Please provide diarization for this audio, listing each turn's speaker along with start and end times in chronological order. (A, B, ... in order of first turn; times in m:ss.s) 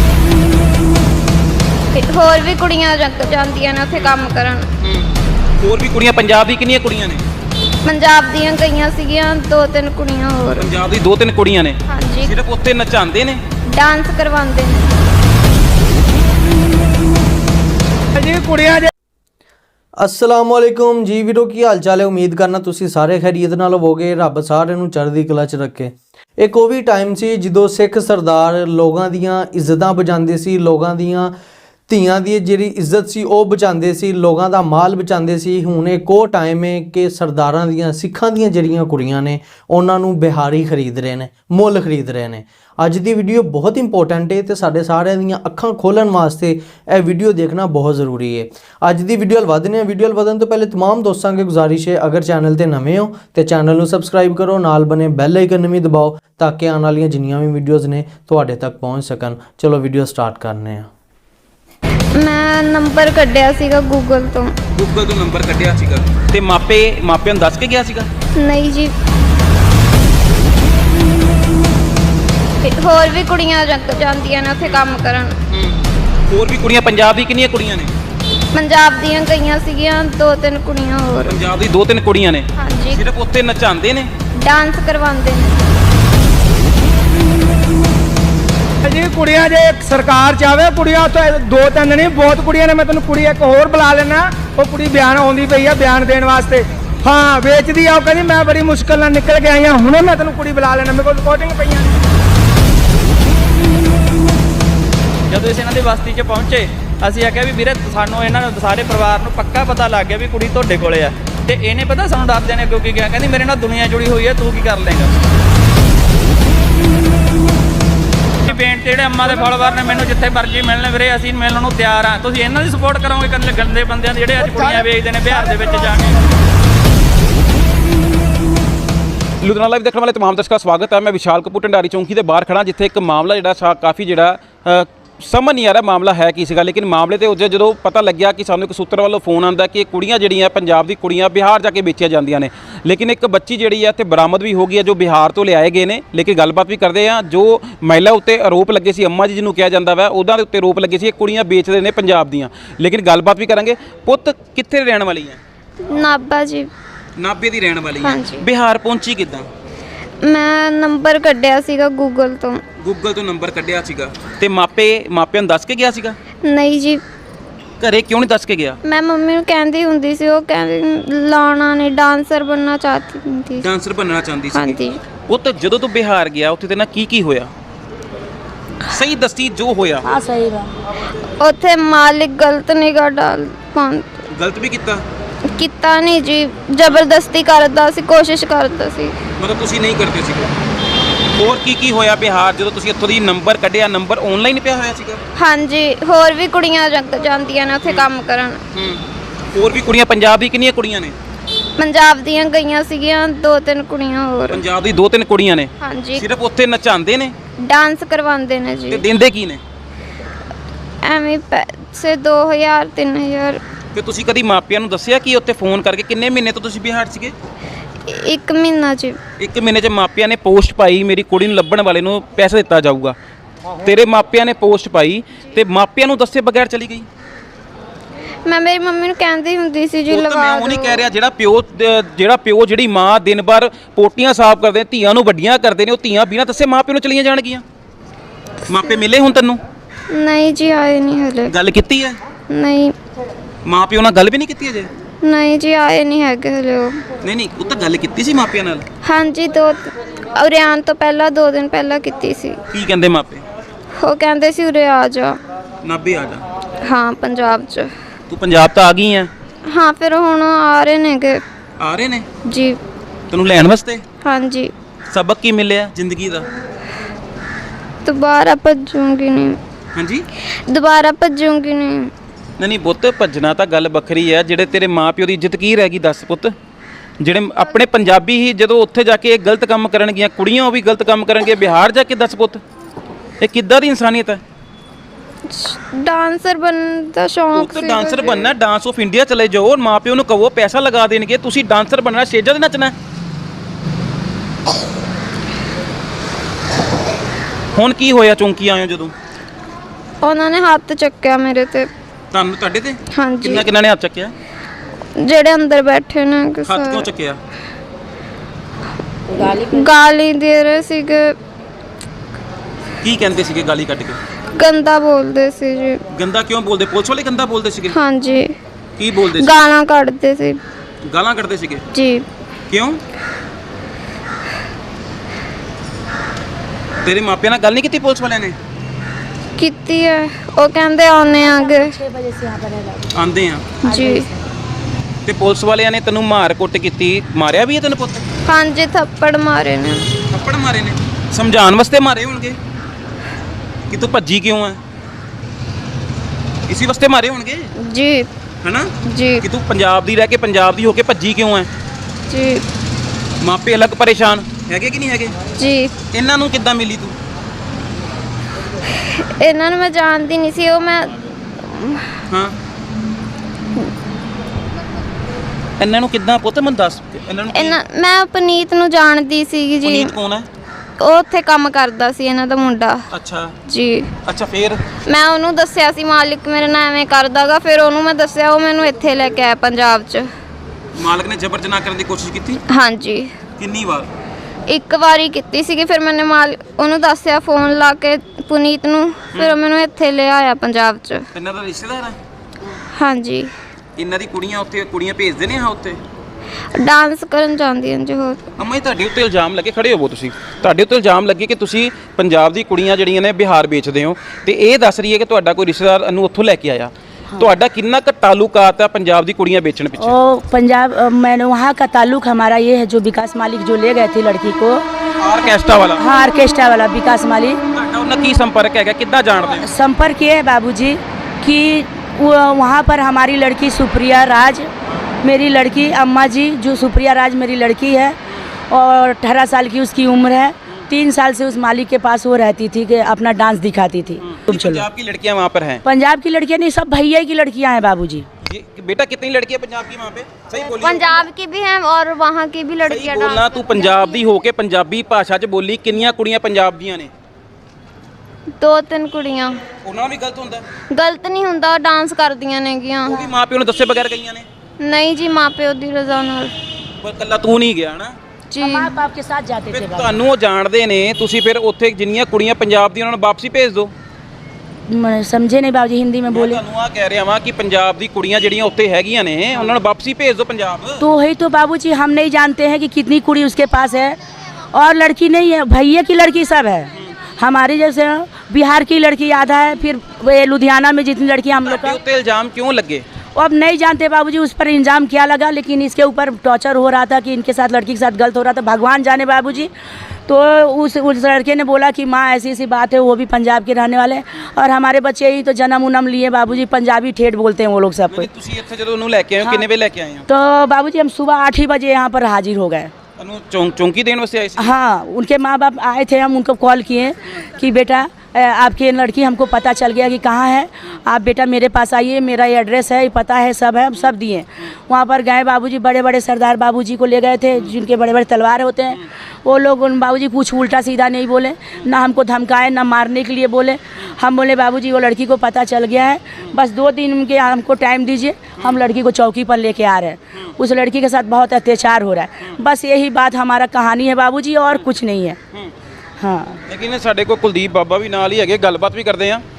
0:02.0-0:04.6 A
0:05.6-0:07.2 B
0:07.9-0:10.7 A
0:10.6-0:13.4 B
0:11.9-0:12.3 A
0:13.8-0:14.8 A
0:18.2-0:18.9 C
0:20.0-0:31.4 D
0:31.9-1:00.9 D
1:02.2-1:04.5 A
1:04.8-1:08.1 B
1:08.4-1:08.9 A
1:12.6-1:15.4 A
1:15.5-1:15.8 B
1:16.3-1:17.9 B
1:18.6-1:21.4 A
1:21.3-1:24.1 B
1:22.6-1:23.0 A
1:24.4-1:25.5 A
1:28.8-1:41.9 C
1:45.3-1:55.1 E
1:58.4-2:06.2 E
2:04.4-2:05.9 C
2:09.4-2:35.4 B
2:35.8-2:36.7 A
2:37.2-2:39.5 B
2:38.0-2:38.4 A
2:40.2-2:42.6 A
2:42.8-2:46.2 B
2:46.4-2:47.0 A
2:47.8-2:48.8 B
2:48.8-2:53.7 A
2:53.6-2:57.5 B
2:54.6-2:55.0 A
2:58.9-3:00.0 B
3:00.0-3:00.7 F
3:01.4-3:04.1 A
3:04.3-3:05.0 B
3:05.6-3:09.2 A
3:09.4-3:10.5 B
3:11.4-3:15.2 B
3:15.4-3:18.6 A
3:18.8-3:19.0 B
3:19.5-3:21.2 B
3:21.8-3:24.6 A
3:24.5-3:27.3 B
3:25.8-3:26.2 A
3:27.6-3:29.0 A
3:28.9-3:29.6 B
3:31.0-3:33.6 A
3:34.0-3:37.3 B
3:38.1-3:39.2 A
3:39.4-3:43.2 B
3:43.8-3:47.1 B
3:48.5-3:51.0 A
3:50.1-3:57.6 B
3:58.7-3:59.6 B
4:00.1-4:01.5 A
4:01.5-4:02.2 B
4:02.5-4:02.9 A
4:03.7-4:04.9 B
4:05.2-4:07.0 A
4:07.2-4:08.9 B
4:09.0-4:12.6 A
4:12.7-4:13.4 B
4:14.0-4:15.4 A
4:15.8-4:16.4 B
4:16.8-4:17.9 A
4:18.3-4:19.3 B
4:19.7-4:21.4 A
4:21.8-4:22.3 B
4:22.5-4:22.8 A
4:23.3-4:24.0 B
4:24.2-4:24.7 A
4:25.1-4:26.5 B
4:28.0-4:29.6 A
4:30.0-4:30.3 B
4:30.7-4:32.1 A
4:32.6-4:36.6 B
4:37.2-4:42.6 B
4:43.4-4:44.4 B
4:45.5-4:48.5 A
4:47.5-4:52.9 B
4:57.8-4:59.1 B
5:00.2-5:01.9 A
5:02.3-5:04.3 B
5:03.2-5:03.6 A
5:05.2-5:07.1 A
5:06.6-5:07.4 B
5:09.3-5:10.0 F
5:09.7-5:11.4 A
5:13.0-5:14.2 B
5:14.6-5:16.0 A
5:16.1-5:18.0 B
5:17.9-5:18.5 A
5:19.0-5:19.6 B
5:19.4-5:20.6 A
5:21.1-5:21.8 B
5:21.9-5:22.2 A
5:22.7-5:23.0 B
5:27.0-5:28.6 B
5:29.6-5:31.9 A
5:31.4-5:33.2 F
5:33.1-5:33.7 B
5:33.8-5:34.2 A
5:33.8-5:34.4 F
5:35.3-5:38.2 B
5:38.5-5:40.1 A
5:40.3-5:42.6 B
5:43.9-5:44.8 B
5:46.7-5:47.7 B
5:47.8-5:48.3 A
5:48.6-5:51.7 B
5:49.1-5:49.4 A
5:52.3-5:52.6 A
5:53.4-5:55.4 B
5:55.6-5:55.9 A
5:56.1-5:57.2 B
5:59.1-6:01.1 A
6:01.6-6:02.1 A
6:02.3-6:02.6 B
6:05.8-6:07.8 B
6:07.5-6:10.1 A
6:09.8-6:10.5 B
6:11.0-6:13.0 A
6:13.1-6:13.5 B
6:13.7-6:14.1 A
6:14.3-6:14.8 B
6:15.1-6:20.3 A
6:21.0-6:22.6 B
6:22.7-6:23.3 A
6:23.6-6:24.1 B
6:24.7-6:31.3 A
6:31.3-6:32.2 B
6:33.0-6:33.5 A
6:34.0-6:36.0 B
6:36.7-6:38.5 A
6:38.6-6:50.2 B
6:50.0-6:54.8 F
6:55.2-6:56.0 B
6:56.0-6:57.6 F
6:57.7-6:59.7 B
6:59.6-7:04.7 F
7:05.2-7:08.2 F
7:08.7-7:14.9 F
7:14.2-7:15.8 B
7:15.8-7:18.3 F
7:18.4-7:21.3 B
7:20.7-7:24.2 A
7:22.9-7:27.1 B
7:28.6-7:29.6 A
7:29.8-7:30.6 B
7:30.9-7:33.3 A
7:33.1-7:34.5 B
7:34.8-7:36.5 A
7:37.0-7:38.2 B
7:38.5-7:39.0 A
7:38.6-7:40.1 F
7:39.7-7:43.9 B
7:44.9-7:46.6 F
7:46.3-7:51.0 B
7:51.0-7:54.2 F
7:54.7-8:02.0 F
8:01.6-8:03.0 B
8:03.4-8:09.7 F
8:10.3-8:18.3 F
8:18.1-8:20.2 B
8:19.4-8:19.7 F
8:20.3-8:22.9 F
8:23.2-8:24.8 B
8:24.6-8:55.4 F
8:56.2-8:56.6 F
8:56.7-8:59.4 B